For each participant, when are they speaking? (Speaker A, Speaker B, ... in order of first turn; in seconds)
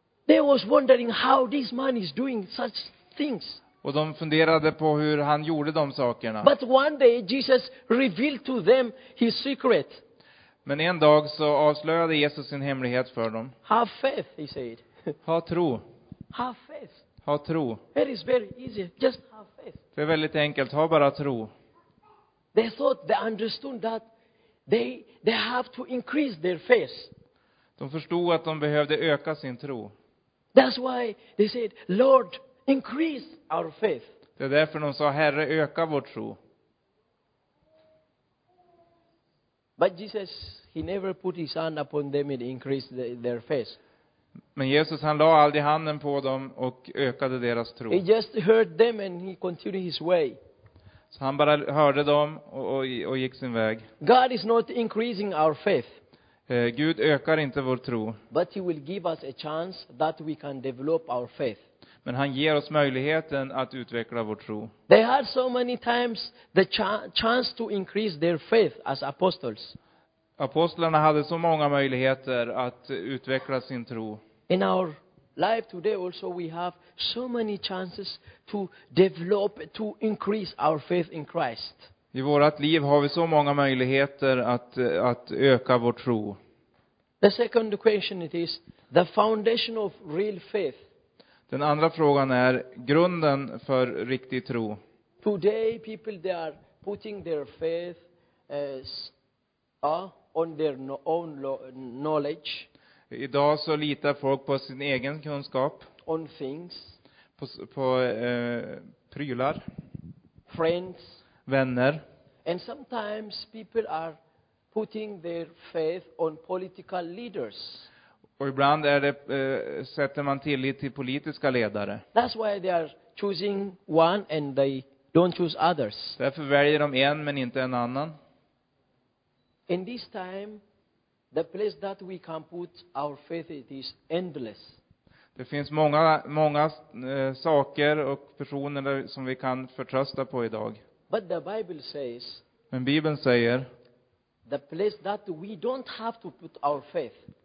Speaker A: 0.3-3.6, 6.4-10.0, 13.6-14.8, 16.3-17.0, 17.9-19.8, 22.5-24.1, 24.7-27.1, 30.5-34.1, 39.8-43.8, 47.9-50.4, 54.0-56.0, 58.3-61.6, 64.9-69.8, 74.5-81.9, 87.2-90.8, 95.2-99.1, 99.8-102.7, 106.0-107.0, 110.5-111.1, 112.5-114.2, 114.7-117.9, 122.1-126.2, 129.7-130.6, 131.3-134.8, 141.1-142.4, 144.5-147.2
Speaker B: 3.8-6.5, 10.6-13.5, 15.2-15.8, 17.2-17.8, 19.9-21.5, 27.8-29.9, 34.4-36.4, 44.5-48.0, 51.1-53.9, 56.5-58.2, 62.0-64.7, 70.4-74.2, 82.1-86.4, 91.5-94.8, 103.1-105.9, 107.4-109.6, 111.5-112.0, 118.4-122.0, 126.2-128.2, 135.3-140.8, 142.7-143.7